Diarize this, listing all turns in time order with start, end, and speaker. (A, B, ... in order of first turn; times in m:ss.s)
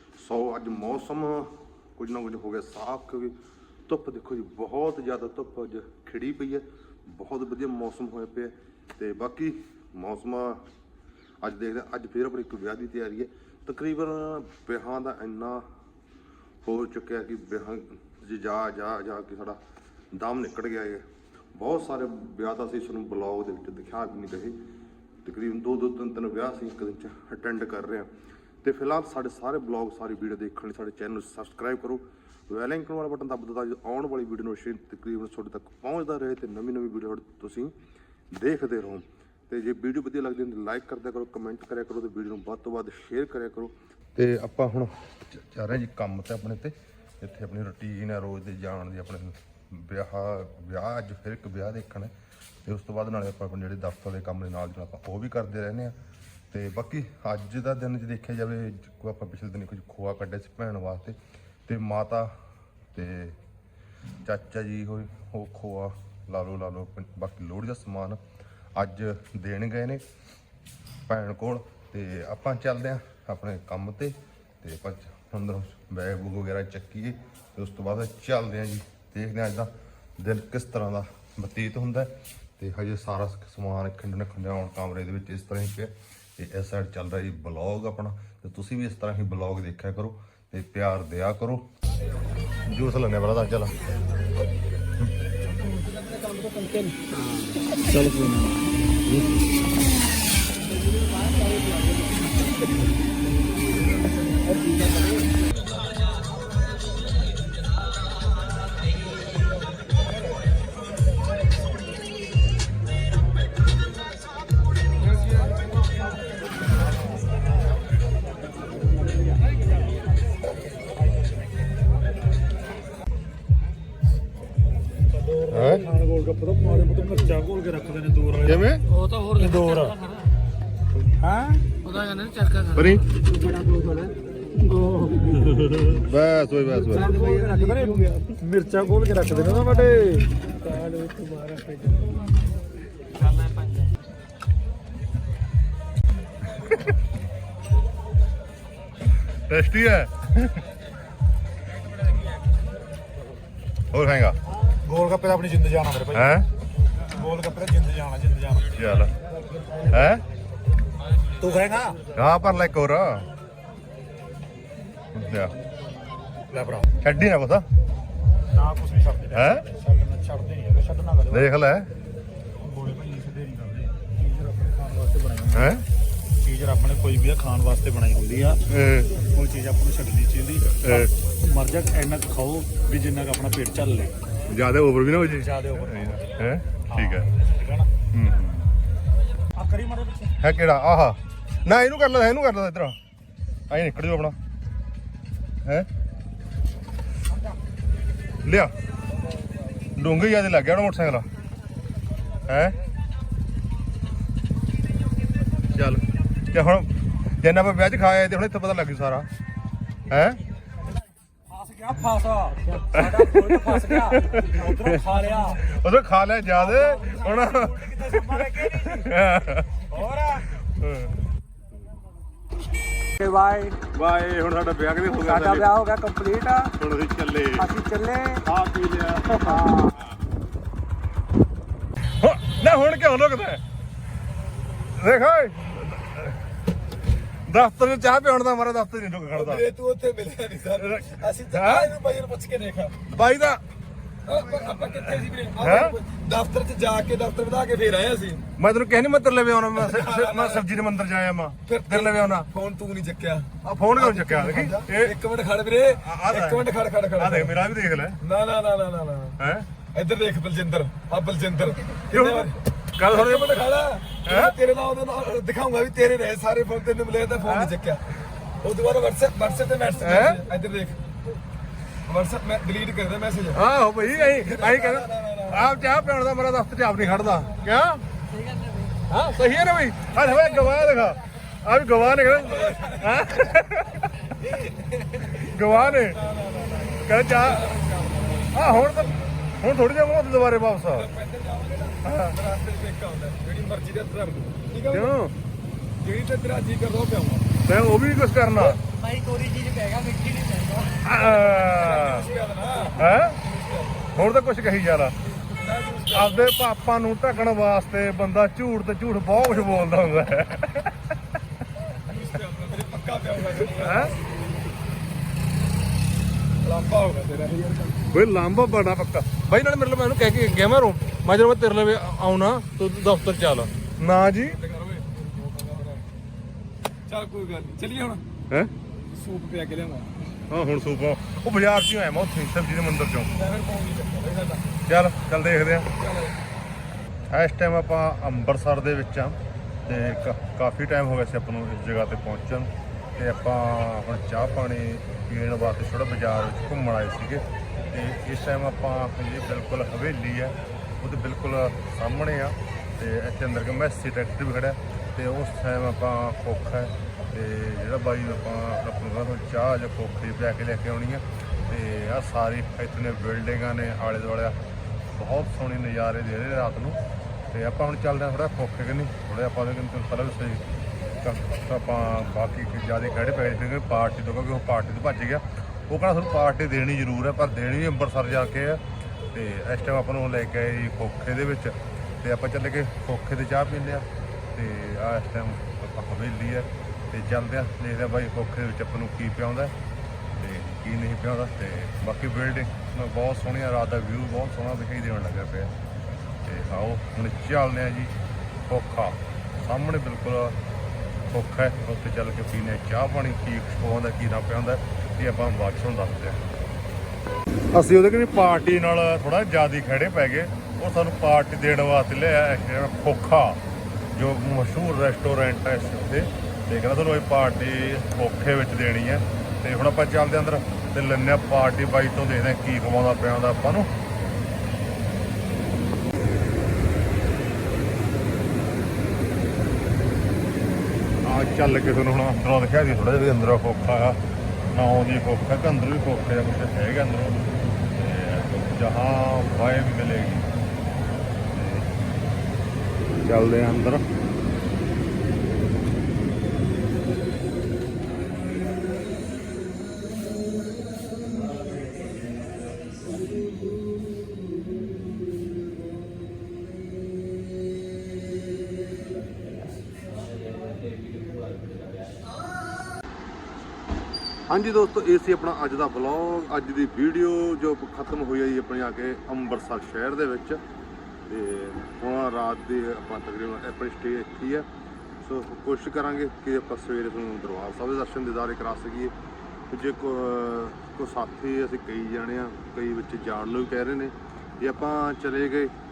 0:00.2-0:03.3 A
0:03.9-0:10.6 A
0:11.4-0:15.6 A
0:16.6-0:19.6 A
0:20.1-0:24.6 A
0:25.2-0:28.1 A
0:28.6-0:37.7 A
0:38.3-0:52.1 A
0:52.6-0:56.0 A
0:56.5-1:02.3 A
1:02.9-1:03.4 A
1:04.2-1:08.2 A
1:08.8-1:10.0 A
1:11.1-1:31.6 A
1:32.7-1:33.8 A
1:35.6-1:36.9 B
1:37.8-1:38.6 B
2:05.1-2:08.7 B
2:05.5-2:05.9 A
2:08.4-2:08.9 A
2:09.0-2:09.9 C
2:09.3-2:10.0 B
2:11.2-2:11.7 B
2:11.9-2:15.2 C
2:12.7-2:13.1 A
2:15.5-2:17.2 A
2:16.9-2:22.1 B
2:17.1-2:18.2 C
2:23.2-2:23.8 C
2:29.5-2:30.6 A
2:33.9-2:34.4 A
2:34.8-2:36.4 B
2:36.1-2:36.5 A
2:37.1-2:38.7 B
2:38.7-2:39.1 A
2:39.9-2:40.2 A
2:41.4-2:42.0 B
2:42.1-2:43.2 A
2:45.1-2:45.5 A
2:46.5-2:46.9 B
2:47.0-2:47.6 A
2:48.5-2:51.5 B
2:49.3-2:49.7 A
2:51.3-2:51.9 A
2:52.6-2:55.7 B
2:55.5-2:55.8 A
2:56.4-2:58.6 B
2:58.7-2:59.1 A
2:59.2-3:04.2 B
3:00.8-3:01.1 A
3:04.5-3:07.3 A
3:05.3-3:06.1 B
3:06.9-3:07.9 B
3:08.1-3:08.7 A
3:09.6-3:10.3 B
3:10.4-3:13.0 A
3:13.7-3:14.4 A
3:18.4-3:18.7 A
3:20.0-3:21.2 A
3:22.5-3:22.8 A
3:25.7-3:29.3 A
3:30.1-3:30.4 A
3:31.5-3:35.7 B
3:32.9-3:39.8 A
3:36.5-3:39.1 B
3:39.9-3:40.5 B
3:40.6-3:41.1 A
3:43.2-3:43.8 B
3:43.9-3:45.8 A
3:45.2-3:46.7 B
3:46.7-3:47.7 A
3:47.6-3:48.4 B
3:48.4-3:49.9 A
3:52.2-3:53.6 A
3:54.9-3:56.3 A
3:57.5-3:59.6 A
3:59.3-4:03.0 D
4:00.8-4:01.9 A
4:03.1-4:03.6 A
4:04.2-4:08.4 D
4:05.6-4:05.9 A
4:08.6-4:12.5 A
4:09.7-4:10.7 D
4:11.6-4:17.6 D
4:13.6-4:15.1 A
4:15.9-4:16.6 A
4:17.2-4:18.2 A
4:18.2-4:19.4 D
4:19.4-4:19.7 A
4:19.9-4:28.0 D
4:22.1-4:23.5 A
4:24.2-4:24.5 A
4:27.4-4:27.7 A
4:28.6-4:31.0 D
4:30.0-4:30.4 A
4:32.1-4:35.7 D
4:33.5-4:38.0 A
4:39.1-4:44.3 A
4:42.3-4:43.4 D
4:44.4-4:49.2 D
4:45.3-4:46.2 A
4:47.0-4:47.6 A
4:48.5-4:51.1 A
4:50.9-4:55.1 D
4:52.0-4:52.4 A
4:54.9-4:55.3 A
4:56.0-4:57.5 D
4:57.6-4:58.8 A
4:59.0-5:00.8 C
5:00.9-5:02.3 A
5:01.5-5:04.1 D
5:02.9-5:03.4 A
5:04.1-5:05.1 A
5:05.5-5:06.5 D
5:06.1-5:10.9 A
5:12.0-5:14.2 D
5:13.7-5:14.2 A
5:16.6-5:18.2 D
5:18.1-5:24.6 A
5:24.4-5:26.1 D
5:27.1-5:28.2 D
5:29.1-5:30.1 D
5:30.5-5:33.3 A
5:33.3-5:34.7 D
5:34.8-5:35.9 A
5:36.0-5:36.4 D
5:37.3-6:04.6 A
6:05.1-6:07.0 A
6:07.5-6:10.6 A
6:11.2-6:18.8 A
6:19.3-6:29.7 A
6:30.4-6:35.7 A
6:36.4-6:38.1 A
6:38.7-6:40.6 A
6:41.3-6:46.4 A
6:47.7-6:53.6 A
6:54.1-7:03.9 A
7:11.2-7:14.2 A
7:14.7-7:17.4 A
7:17.9-7:20.5 A
7:21.5-7:21.9 A
7:23.0-7:24.0 A
7:44.5-7:50.6 A
7:51.3-7:54.6 A
7:55.2-7:59.1 A
7:59.7-8:05.7 A